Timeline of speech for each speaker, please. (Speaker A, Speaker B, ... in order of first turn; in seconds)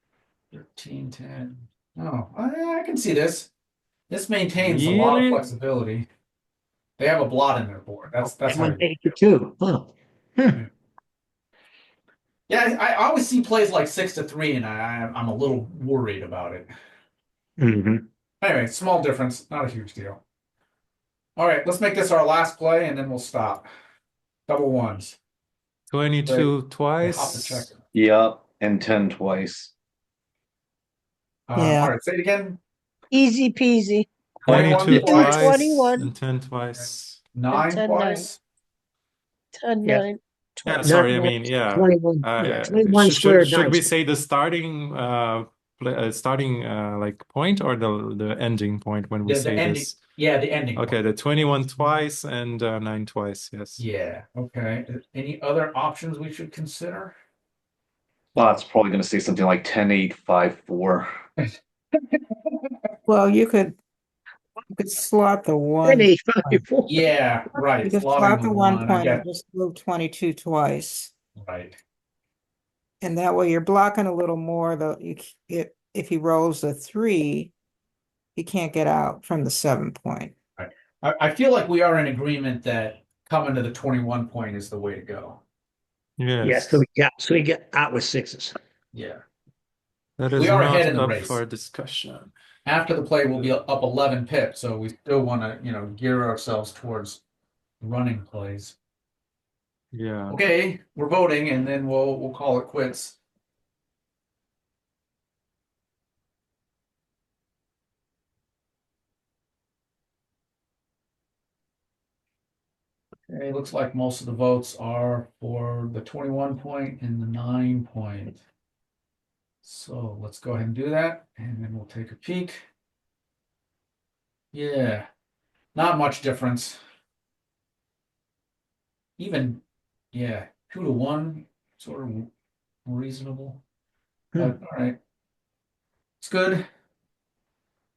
Speaker A: 0.5-3.5, 4.1-6.1, 7.0-8.8, 12.5-16.7, 18.4-20.2, 21.4-23.7, 24.5-25.2, 26.3-27.8, 31.5-32.6, 34.4-35.6, 37.4-38.4, 49.2-51.0, 53.8-57.2, 62.1-62.5, 66.9-69.2, 71.4-71.8, 80.6-85.4, 88.9-89.2, 90.3-91.4, 92.7-97.2, 97.8-98.8, 100.3-103.2, 113.3-118.4, 119.6-122.7, 124.5-125.1, 125.8-126.8, 129.2-132.3, 132.9-133.6, 134.4-135.0, 136.2-136.6
Speaker B: 4.6-5.5, 25.9-27.7, 34.5-37.3, 40.7-50.0, 50.8-53.8, 86.2-86.8, 90.2-92.3, 99.9-100.4
Speaker C: 8.2-10.6, 17.6-18.0, 40.8-43.9, 65.8-67.1, 86.4-88.6
Speaker D: 27.9-29.7, 58.4-61.1
Speaker E: 31.6-31.9, 63.1-63.8, 64.7-66.6, 67.8-71.1, 73.0-77.5, 78.3-80.3
Speaker F: 33.1-34.1, 35.0-36.1, 37.5-38.3, 39.6-41.2